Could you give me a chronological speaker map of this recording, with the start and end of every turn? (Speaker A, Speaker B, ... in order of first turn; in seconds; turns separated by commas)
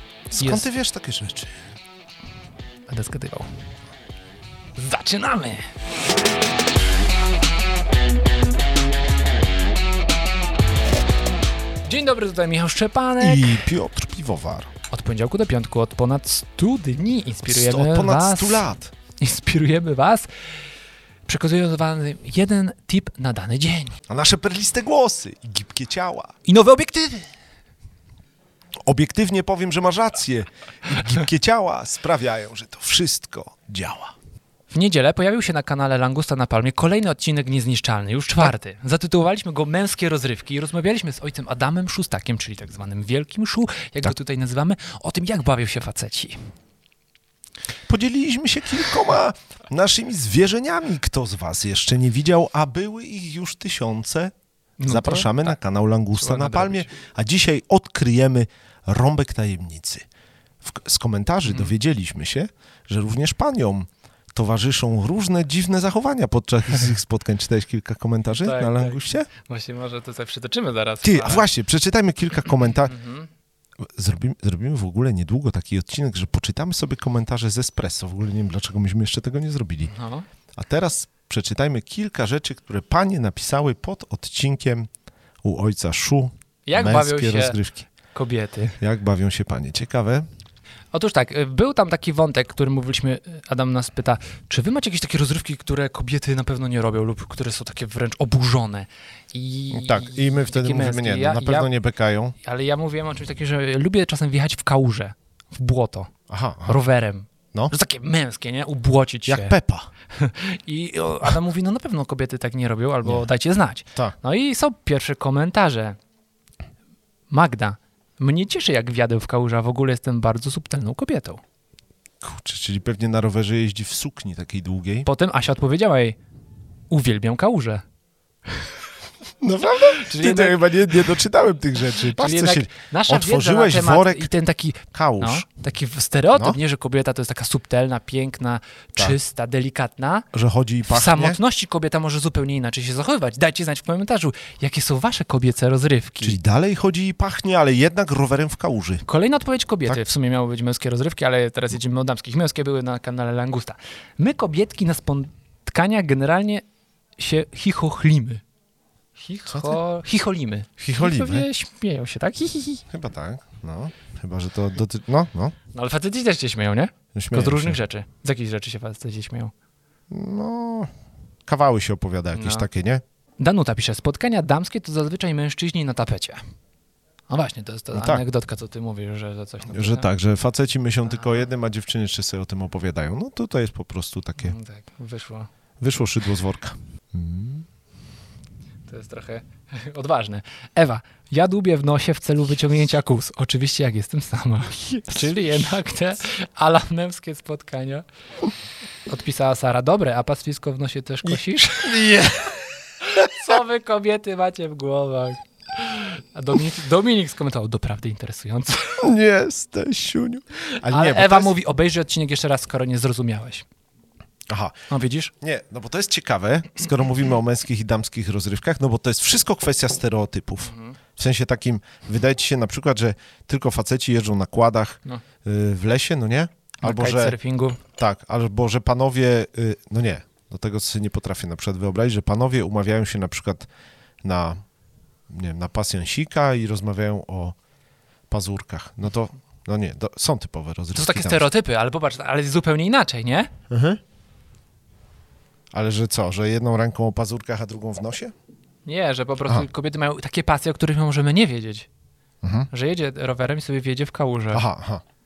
Speaker A: 0.3-1.6, Speaker B: 0.4-0.7, Speaker B: 2.9-3.5, Speaker B: 4.8-5.7, Speaker B: 11.8-13.6, Speaker A: 13.2-14.7, Speaker B: 14.9-18.7, Speaker A: 17.4-18.9, Speaker B: 19.2-20.3, Speaker B: 21.2-24.0, Speaker A: 24.1-26.3, Speaker B: 26.4-27.3, Speaker A: 28.8-34.1, Speaker B: 34.7-46.4, Speaker A: 47.9-54.3, Speaker B: 54.8-55.6, Speaker A: 54.8-60.0, Speaker B: 56.1-56.9, Speaker A: 60.6-69.3, Speaker B: 61.5-61.7, Speaker B: 68.3-71.4, Speaker A: 71.0-73.0, Speaker B: 72.9-73.3, Speaker A: 73.8-79.9, Speaker B: 79.8-80.2, Speaker A: 80.5-84.9, Speaker A: 85.4-87.8, Speaker B: 86.7-87.6, Speaker B: 88.1-88.8, Speaker A: 88.8-90.2, Speaker B: 90.9-101.7, Speaker A: 99.7-102.3, Speaker B: 102.4-106.1, Speaker A: 106.3-106.8, Speaker B: 106.7-109.5, Speaker A: 109.2-109.9, Speaker B: 110.1-116.0, Speaker B: 117.3-121.4, Speaker A: 122.2-125.1, Speaker B: 125.0-126.2, Speaker B: 126.9-127.8, Speaker A: 129.4-134.3, Speaker B: 130.0-131.1, Speaker B: 132.0-140.3, Speaker A: 134.9-135.4, Speaker A: 136.3-136.6, Speaker A: 140.3-141.4, Speaker B: 140.9-146.4, Speaker A: 146.2-149.0, Speaker B: 149.0-156.6, Speaker B: 157.2-158.4, Speaker B: 159.2-162.8, Speaker A: 159.5-159.8, Speaker A: 160.8-161.5, Speaker A: 162.9-165.6, Speaker B: 165.7-169.5, Speaker A: 167.1-167.8, Speaker A: 170.1-170.9, Speaker A: 171.5-173.0, Speaker B: 172.3-172.7, Speaker B: 173.4-176.4, Speaker B: 177.3-180.1, Speaker A: 177.9-178.2, Speaker A: 179.7-184.6, Speaker B: 181.1-181.5, Speaker B: 184.4-185.5, Speaker A: 185.8-187.7, Speaker B: 188.9-198.0, Speaker B: 199.1-209.1, Speaker A: 201.3-202.5, Speaker A: 209.0-211.6, Speaker B: 210.7-213.7, Speaker A: 214.5-214.8, Speaker B: 214.9-215.3, Speaker A: 215.4-227.4, Speaker B: 220.7-220.9, Speaker B: 226.8-227.8, Speaker A: 228.0-233.7, Speaker A: 234.2-234.6, Speaker A: 235.3-237.6, Speaker A: 238.3-241.4, Speaker B: 240.9-243.5, Speaker A: 243.7-244.0, Speaker A: 245.7-248.3, Speaker B: 248.8-251.9, Speaker A: 252.4-252.7, Speaker B: 252.7-254.6, Speaker A: 254.5-255.0